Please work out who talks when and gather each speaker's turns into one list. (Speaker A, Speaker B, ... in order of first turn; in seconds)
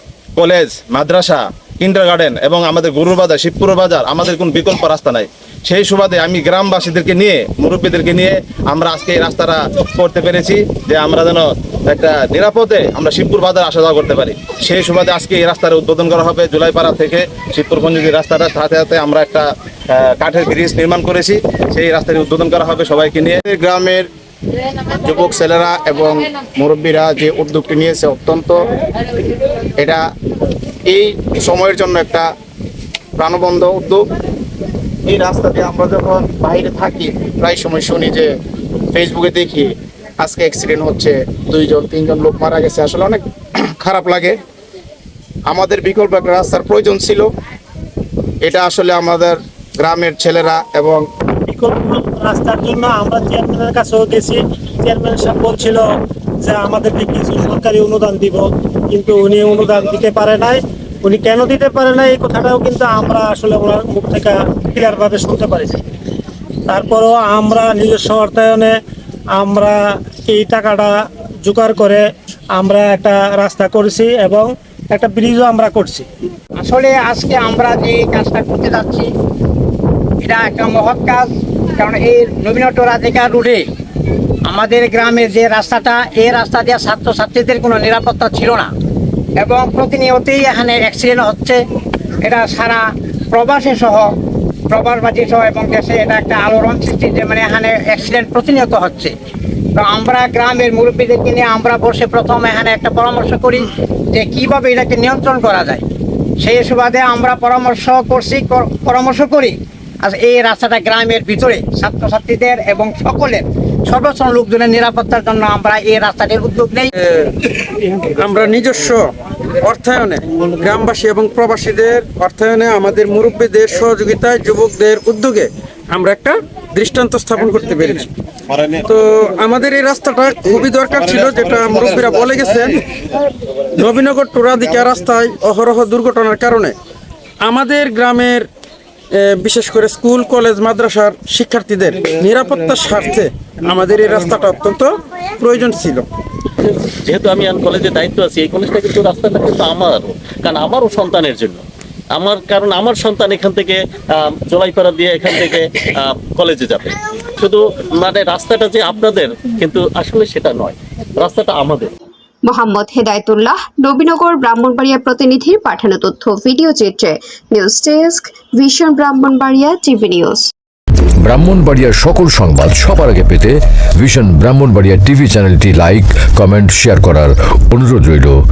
Speaker A: 0.4-23.4
Speaker B: 23.4-24.1, 25.0-28.6, 30.9-32.3, 33.2-34.1, 35.1-38.3, 38.9-43.2, 43.8-44.4, 45.5-47.3, 48.4-51.0
Speaker C: 51.5-55.9, 56.4-65.8, 66.7-68.8, 69.3-76.0
Speaker D: 76.6-79.1, 80.2-83.7, 84.5-88.7, 89.4-91.6, 92.2-94.1, 94.7-99.2, 99.8-105.8, 106.4-116.9
Speaker E: 117.0-117.3, 118.2-119.1, 119.6-128.1, 128.7-132.8, 133.8-136.8, 137.4-138.5, 139.2-146.1
Speaker F: 146.6-161.9
Speaker G: 162.5-170.5
Speaker H: 171.3-173.5, 174.1-178.3